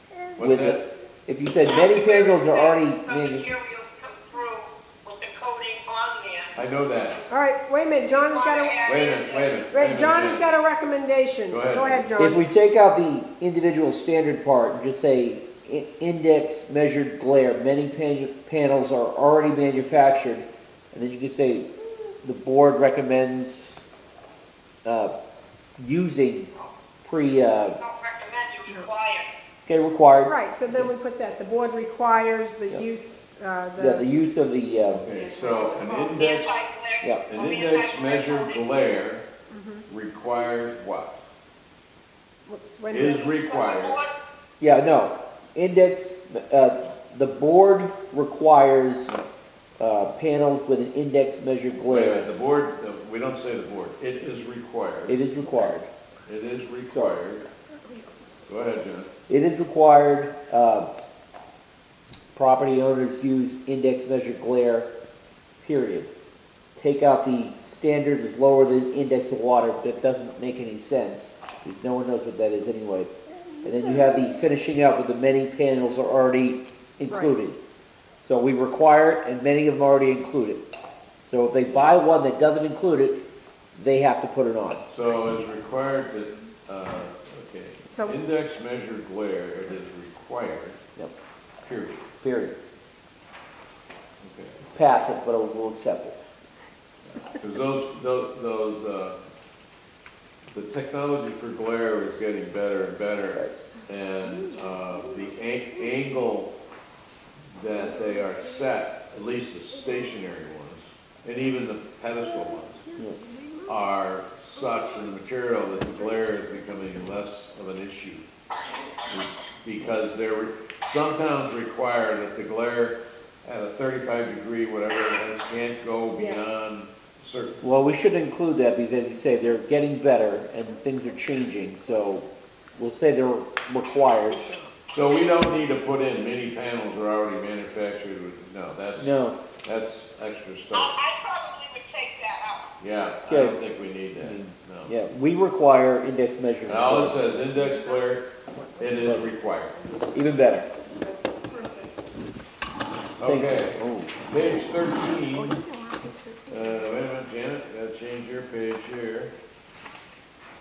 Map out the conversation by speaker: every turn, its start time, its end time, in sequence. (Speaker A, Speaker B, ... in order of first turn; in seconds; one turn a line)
Speaker A: 0.4-0.9
Speaker B: 0.4-3.5
Speaker C: 1.6-6.5
Speaker A: 6.5-7.2
Speaker D: 7.3-8.8
Speaker C: 8.2-9.6
Speaker A: 8.8-10.5
Speaker D: 9.7-12.4
Speaker A: 11.5-12.1
Speaker B: 12.2-21.7
Speaker B: 22.2-23.8
Speaker B: 24.9-25.1
Speaker B: 25.8-26.5
Speaker B: 27.0-27.8
Speaker C: 27.8-29.3
Speaker B: 29.7-30.9
Speaker D: 30.3-34.1
Speaker B: 33.8-35.1
Speaker A: 34.9-36.6
Speaker E: 35.1-36.2
Speaker C: 36.1-38.7
Speaker A: 37.3-39.3
Speaker D: 39.5-39.9
Speaker A: 39.9-41.2
Speaker D: 42.5-43.3
Speaker A: 42.9-44.0
Speaker C: 43.0-44.1
Speaker B: 44.6-49.1
Speaker B: 49.8-52.3
Speaker A: 51.9-55.2
Speaker B: 55.1-55.9
Speaker A: 56.3-57.5
Speaker B: 56.9-57.2
Speaker D: 57.7-58.4
Speaker A: 58.5-59.1
Speaker B: 59.3-60.9
Speaker B: 62.4-64.9
Speaker B: 65.6-66.1
Speaker B: 66.8-73.1
Speaker B: 73.6-77.6
Speaker D: 73.8-74.1
Speaker D: 77.1-77.3
Speaker B: 78.2-80.6
Speaker B: 81.2-83.2
Speaker B: 83.8-84.8
Speaker A: 84.9-90.8
Speaker D: 87.9-88.2
Speaker A: 91.6-92.1
Speaker B: 92.2-92.6
Speaker A: 94.2-94.6
Speaker B: 94.6-96.2
Speaker A: 97.1-99.2
Speaker A: 100.5-106.5
Speaker A: 107.6-112.9
Speaker D: 112.9-113.7
Speaker B: 113.0-113.2
Speaker A: 113.7-118.3
Speaker A: 119.1-127.6
Speaker D: 126.2-126.4
Speaker B: 127.6-134.5
Speaker C: 134.9-135.4
Speaker A: 134.9-141.0
Speaker B: 139.0-139.4
Speaker C: 140.7-142.7
Speaker A: 142.8-144.9
Speaker B: 143.3-143.6
Speaker B: 144.2-147.3
Speaker A: 146.7-149.7
Speaker D: 147.5-149.0
Speaker B: 149.0-149.3
Speaker D: 149.6-150.1
Speaker B: 150.1-150.7
Speaker E: 150.8-151.9
Speaker A: 153.2-155.6
Speaker B: 153.2-154.3
Speaker D: 155.3-156.9
Speaker A: 156.5-159.3